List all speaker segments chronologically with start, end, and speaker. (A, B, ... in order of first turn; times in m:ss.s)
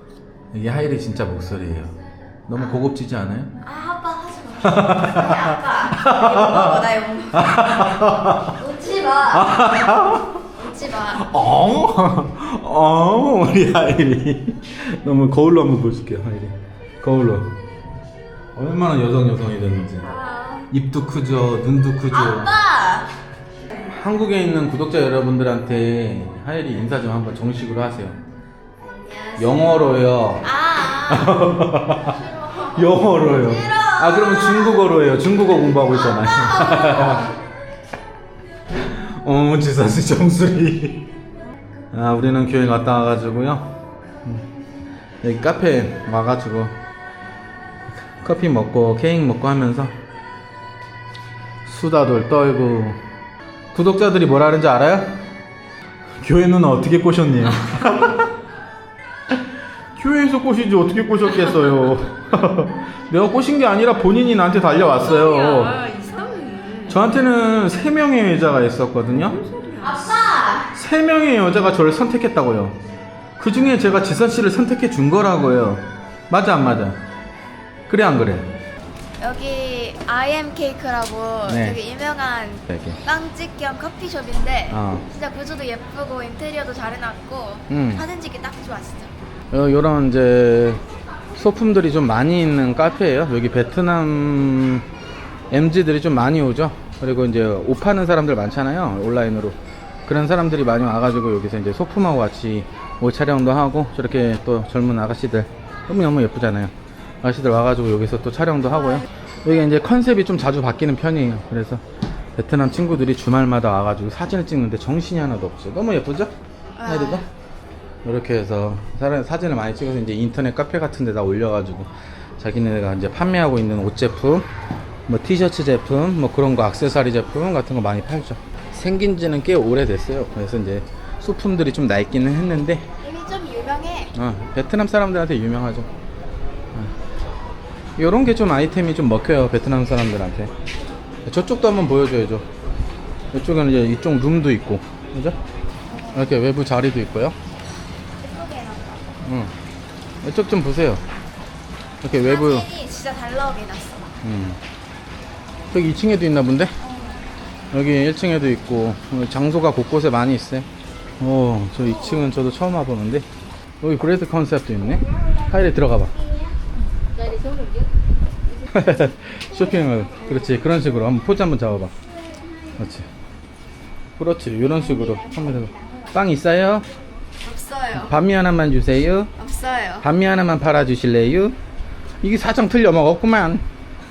0:00.5-0:01.9 A
0:02.5-0:03.6 A
0:02.6-0:02.8 B
0:03.6-0:07.6 B
0:04.6-0:08.6 A
0:08.6-0:11.3 B
0:09.3-0:10.4 A
0:11.2-0:17.5 A
0:18.6-0:20.1 A
0:20.0-0:20.7 B
0:20.7-0:22.5 A
0:22.1-0:23.1 B
0:23.8-0:28.2 A
0:28.8-0:34.9 B
0:29.4-0:30.5 A
0:31.1-0:32.2 A
0:32.7-0:37.3 A
0:35.9-0:37.4 B
0:38.7-0:41.1 A
0:41.9-0:44.4 A
0:45.2-0:46.8 A
0:48.2-0:49.9 A
0:51.7-0:53.0 A
0:53.7-0:55.2 A
0:56.2-0:58.3 A
1:00.0-1:05.8 A
1:04.9-1:07.1 C
1:06.9-1:09.4 A
1:09.2-1:10.1 C
1:09.8-1:10.7 B
1:10.7-1:12.8 A
1:13.4-1:17.0 A
1:17.9-1:18.5 A
1:19.2-1:29.1 B
1:21.5-1:21.8 A
1:22.7-1:23.0 A
1:24.7-1:25.1 A
1:27.7-1:28.1 A
1:29.5-1:30.8 A
1:31.4-1:34.9 A
1:35.5-1:51.8 A
1:52.4-1:56.3 A
1:56.8-1:57.3 B
1:56.8-1:57.2 A
1:58.0-2:04.5 A
2:05.1-2:12.9 A
2:13.0-2:14.1 B
2:14.1-2:15.9 A
2:18.0-2:20.5 A
2:21.2-2:22.5 A
2:23.3-2:25.4 A
2:25.9-2:26.3 B
2:26.1-2:27.4 A
2:28.2-2:29.1 B
2:29.2-2:29.5 A
2:30.2-2:31.0 A
2:32.0-2:32.7 A
2:32.2-2:34.2 B
2:34.2-2:34.6 A
2:35.7-2:36.8 A
2:36.8-2:37.2 B
2:37.7-2:40.7 A
2:41.2-2:43.3 A
2:43.8-2:46.2 A
2:45.2-2:45.6 B
2:46.1-2:46.5 B
2:47.1-2:47.9 B
2:48.7-2:51.9 A
2:52.8-2:53.1 A
2:54.2-2:56.9 A
2:54.8-2:56.0 B
2:57.4-2:58.2 B
2:57.9-2:59.3 A
2:59.4-3:00.1 B
3:00.0-3:01.6 A
3:02.2-3:03.7 A